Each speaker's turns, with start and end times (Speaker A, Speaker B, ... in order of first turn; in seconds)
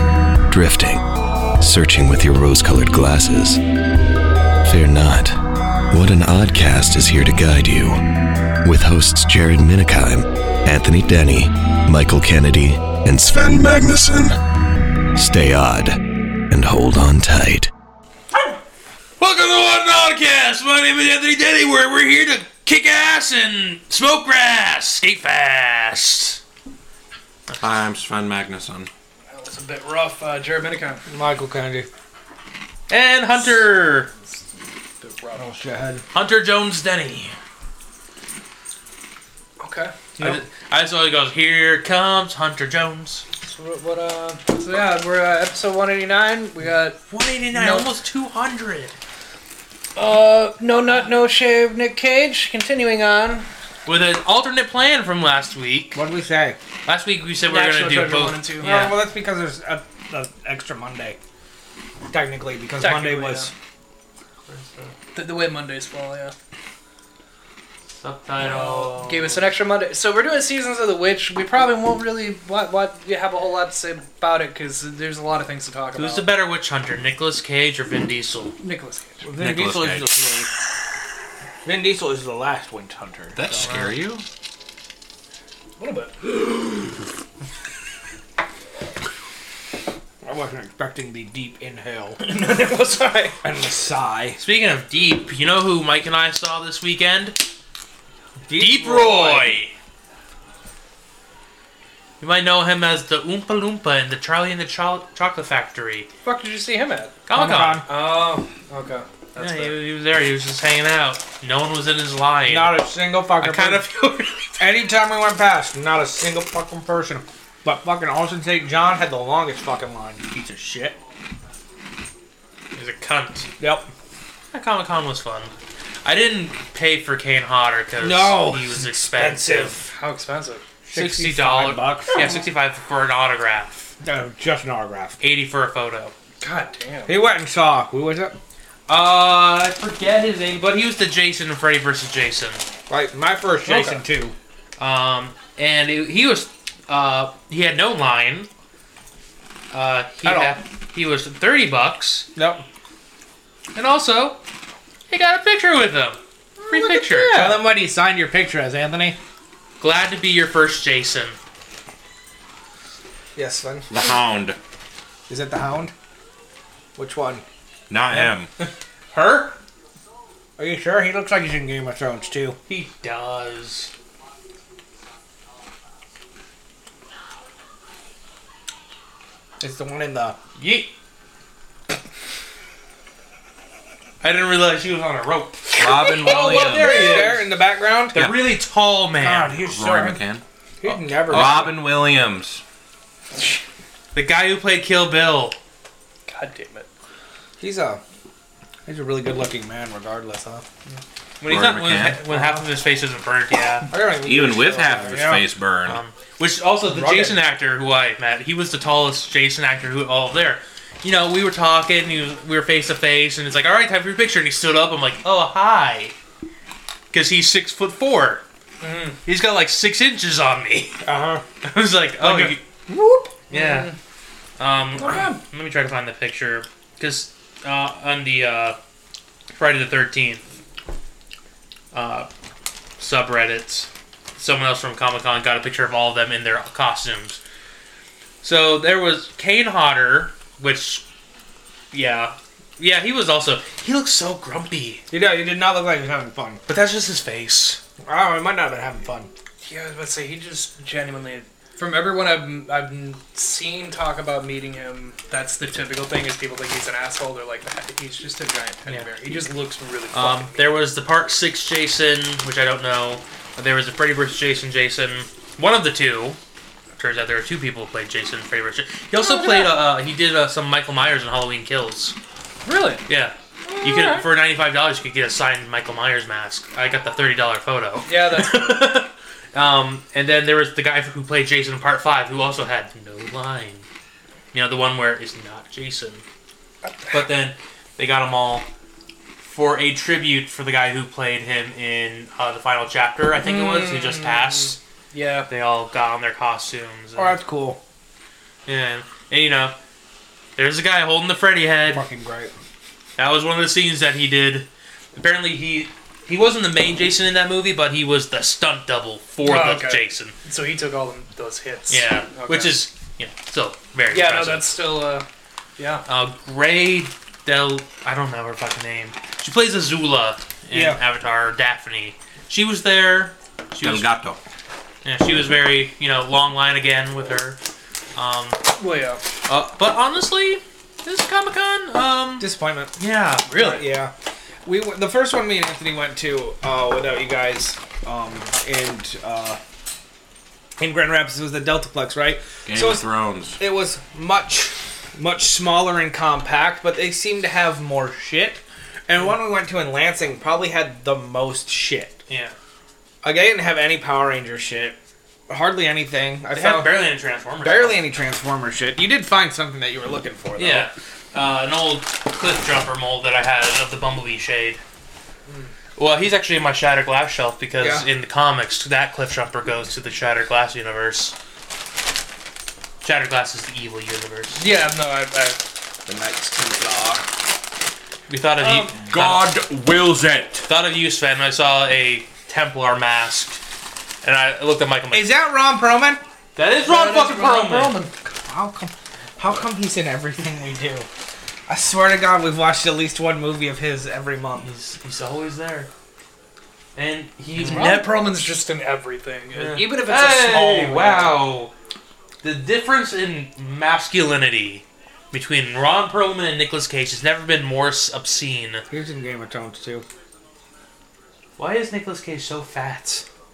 Speaker A: 0.5-3.6, 4.6-5.4, 5.9-8.0, 8.6-14.4, 15.1-16.0, 16.5-17.7
Speaker B: 19.2-26.4, 32.9-34.1, 36.1-37.3, 40.2-43.2, 47.1-48.9, 53.9-56.0, 56.9-59.0, 64.5-64.9, 68.0-69.5, 76.0-78.5, 83.6-83.9, 94.4-97.4, 98.5-99.7, 102.2-106.1, 107.3-107.8, 109.4-112.8, 113.4-114.6, 122.7-123.5, 124.5-125.5, 126.0-129.8, 130.9-133.9, 135.2-136.1, 138.9-142.6, 144.8-148.5, 149.7-152.3, 153.7-154.4, 155.1-157.4, 159.8-161.4, 169.1-169.6, 172.7-173.9, 180.6-180.9, 184.2-187.4, 188.1-189.6, 191.3-191.7, 194.1-195.6, 201.4-203.9, 205.8-216.1, 217.1-218.4, 219.2-221.0, 221.6-222.6, 223.5-223.9, 224.6-228.8, 229.5-230.4, 231.9-232.3, 233.0-237.4, 238.4-241.1, 241.9-245.0, 246.7-247.8, 260.1-266.4, 267.0-272.1, 273.1-283.9, 284.5-286.2, 287.1-288.6, 289.4-294.8, 295.5-297.4, 298.7-299.8, 300.6-302.0, 303.2-310.3, 311.9-314.7, 316.1-324.1, 325.0-327.6, 328.1-328.6, 329.5-333.6, 352.3-352.5, 356.5-358.0, 360.6-364.8, 366.0-371.3, 373.0-374.6, 378.3-379.5, 380.7-383.6, 384.2-385.4, 386.6-388.0, 394.6-395.9, 396.9-398.1, 399.5-401.7, 402.4-408.8, 411.6-413.2
Speaker C: 27.6-28.9, 79.4-80.4, 83.3-84.2, 163.9-164.6, 167.9-168.5, 185.8-187.2, 188.1-188.5, 189.5-192.6, 201.4-202.2, 204.2-206.0, 323.8-324.4, 342.6-343.6, 378.6-380.7
Speaker D: 29.3-31.0, 34.1-35.5, 39.6-39.9, 43.4-47.0, 47.5-47.9, 49.9-53.5, 57.4-58.7, 62.8-63.5, 65.1-66.3, 68.4-76.3, 78.6-79.3, 85.8-86.8, 92.2-93.4, 106.2-107.2, 107.9-109.8, 129.9-130.6, 136.4-137.2, 143.7-144.0, 156.6-157.6, 186.8-187.3, 196.3-196.9, 218.8-219.2, 223.5-223.9, 225.0-225.4, 249.6-260.8, 269.1-269.8, 272.6-273.0, 273.6-274.3, 278.1-278.9, 286.8-287.3, 293.3-295.5, 309.4-312.8, 314.1-316.1, 328.8-329.2, 333.4-333.8, 365.4-365.7, 374.5-375.6, 386.8-388.1, 397.6-401.4
Speaker E: 31.1-31.9, 35.4-36.0, 55.9-56.6, 58.6-61.2, 62.1-63.5, 79.2-80.5, 81.6-83.8, 90.2-92.3, 93.4-94.4, 98.5-99.6, 107.3-107.9, 112.5-113.9, 114.6-121.0, 123.6-123.9, 128.0-129.9, 130.8-132.3, 134.0-135.2, 137.1-138.4, 142.9-144.3, 150.2-150.6, 152.3-152.6, 157.3-159.2, 163.3-163.9, 165.3-165.9, 167.0-167.4, 170.6-172.6, 179.6-180.4, 186.0-188.2, 189.2-190.2, 190.8-191.8, 197.6-198.0, 198.8-200.6, 202.2-202.7, 203.9-205.5, 206.8-207.4, 221.0-221.4, 222.2-223.3, 245.1-246.6, 248.0-249.3, 297.1-297.8, 301.9-302.5, 320.7-321.0, 332.4-332.9, 333.6-334.1, 334.6-339.6, 340.8-352.2, 353.2-355.0, 355.5-360.9, 367.8-368.1, 376.1-377.3, 385.1-386.2, 388.2-391.1, 391.7-394.7, 408.9-410.1